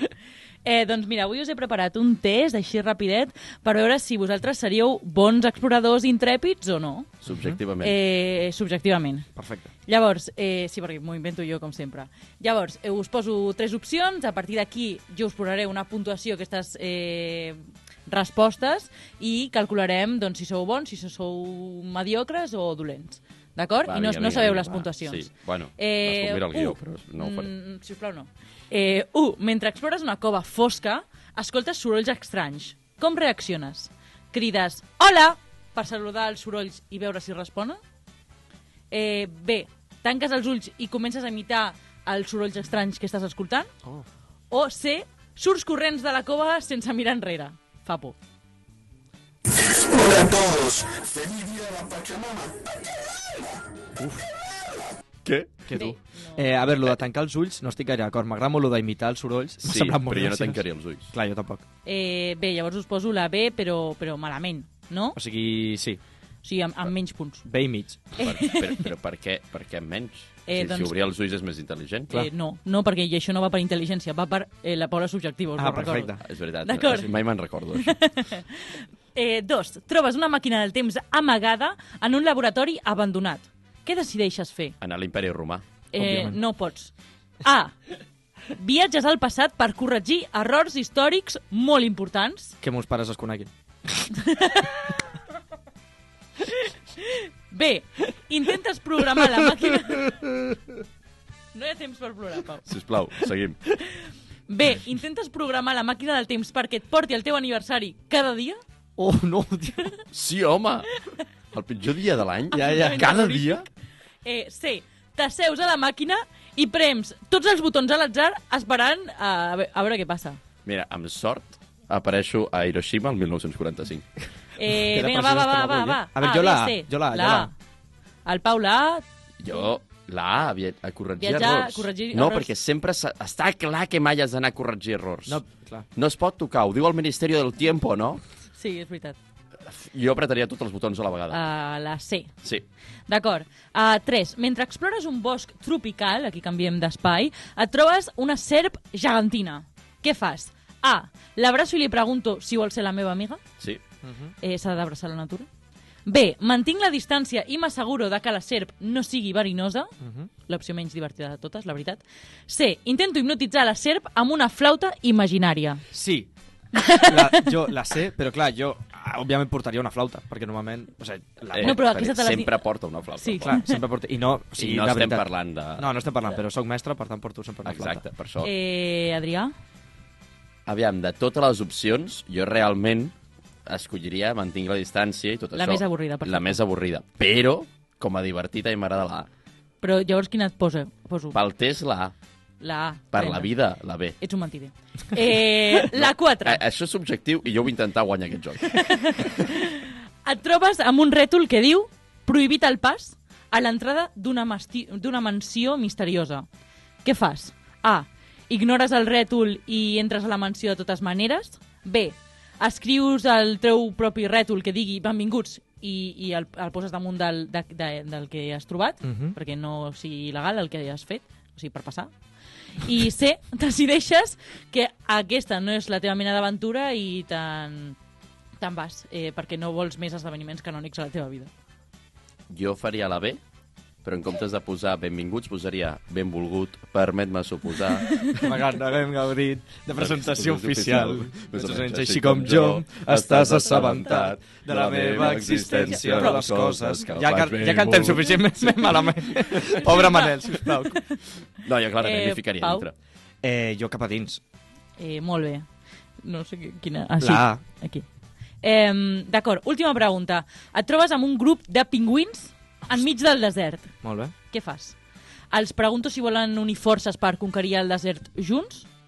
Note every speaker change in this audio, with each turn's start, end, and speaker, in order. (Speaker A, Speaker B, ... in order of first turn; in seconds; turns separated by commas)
Speaker A: 0.6-7.2, Speaker B: 7.2-8.0, Speaker C: 7.3-7.6, Speaker A: 7.8-9.3, Speaker C: 9.3-9.7, Speaker A: 9.9-37.8, Speaker B: 23.9-27.5, Speaker A: 38.9-43.7, Speaker A: 44.5-48.1, Speaker C: 54.0-54.3, Speaker B: 55.2-55.6, Speaker C: 55.7-61.6, Speaker A: 55.7-56.5, Speaker B: 59.6-61.1, Speaker A: 61.8-65.2, Speaker C: 65.1-66.0, Speaker A: 66.4-67.5, Speaker C: 67.5-68.0, Speaker B: 68.2-72.1, Speaker A: 68.2-68.9, Speaker A: 70.5-70.9, Speaker A: 72.1-77.2, Speaker C: 75.6-76.2, Speaker B: 76.2-78.0, Speaker C: 76.8-77.1, Speaker A: 77.7-84.8, Speaker B: 84.8-85.6, Speaker A: 85.9-86.9, Speaker C: 86.0-86.4, Speaker A: 87.4-87.8, Speaker A: 88.5-92.5, Speaker C: 92.6-93.5, Speaker A: 94.1-95.0, Speaker A: 96.5-100.2, Speaker C: 99.2-100.6, Speaker A: 101.5-102.7, Speaker B: 102.7-103.6, Speaker A: 104.5-108.6, Speaker C: 109.0-110.0, Speaker B: 110.1-110.9, Speaker B: 111.5-113.1, Speaker C: 112.5-113.6, Speaker A: 112.5-113.7, Speaker A: 114.2-120.4, Speaker B: 120.6-124.0, Speaker A: 124.6-127.5, Speaker C: 124.7-127.5, Speaker A: 128.2-129.0, Speaker B: 129.4-135.4, Speaker A: 131.2-132.5, Speaker C: 135.3-135.9, Speaker B: 135.9-138.2, Speaker A: 138.6-139.2, Speaker B: 139.6-141.4, Speaker A: 141.3-142.3, Speaker A: 143.1-153.4, Speaker C: 154.0-154.3, Speaker A: 154.4-155.5, Speaker A: 156.1-159.9, Speaker C: 160.0-160.3, Speaker A: 160.5-165.8, Speaker C: 165.9-166.3, Speaker A: 166.8-167.5, Speaker C: 166.9-171.8, Speaker B: 171.5-173.5, Speaker A: 171.6-172.6, Speaker A: 173.2-173.8, Speaker C: 173.4-175.2, Speaker B: 174.6-175.9, Speaker C: 175.8-178.0, Speaker B: 177.6-178.5, Speaker A: 178.4-179.5, Speaker B: 180.7-183.1, Speaker B: 183.7-189.3, Speaker A: 185.5-186.6, Speaker A: 189.8-191.4, Speaker B: 191.3-192.1, Speaker A: 192.6-193.5, Speaker B: 193.1-194.2, Speaker A: 194.2-196.6, Speaker B: 195.9-198.8, Speaker A: 198.7-206.5, Speaker A: 207.0-222.1, Speaker C: 219.0-219.3, Speaker A: 222.8-228.0, Speaker A: 228.6-231.5, Speaker B: 232.5-233.4, Speaker B: 234.0-238.2, Speaker A: 238.1-238.4, Speaker C: 238.3-251.0, Speaker B: 239.9-248.4, Speaker A: 245.6-246.4, Speaker A: 248.9-251.2, Speaker B: 251.6-252.9, Speaker A: 252.0-252.8, Speaker C: 253.4-254.4, Speaker A: 255.0-255.7, Speaker A: 256.2-258.0, Speaker C: 257.2-257.6, Speaker A: 258.6-264.0, Speaker C: 264.0-264.3, Speaker A: 264.5-264.9, Speaker A: 265.5-268.9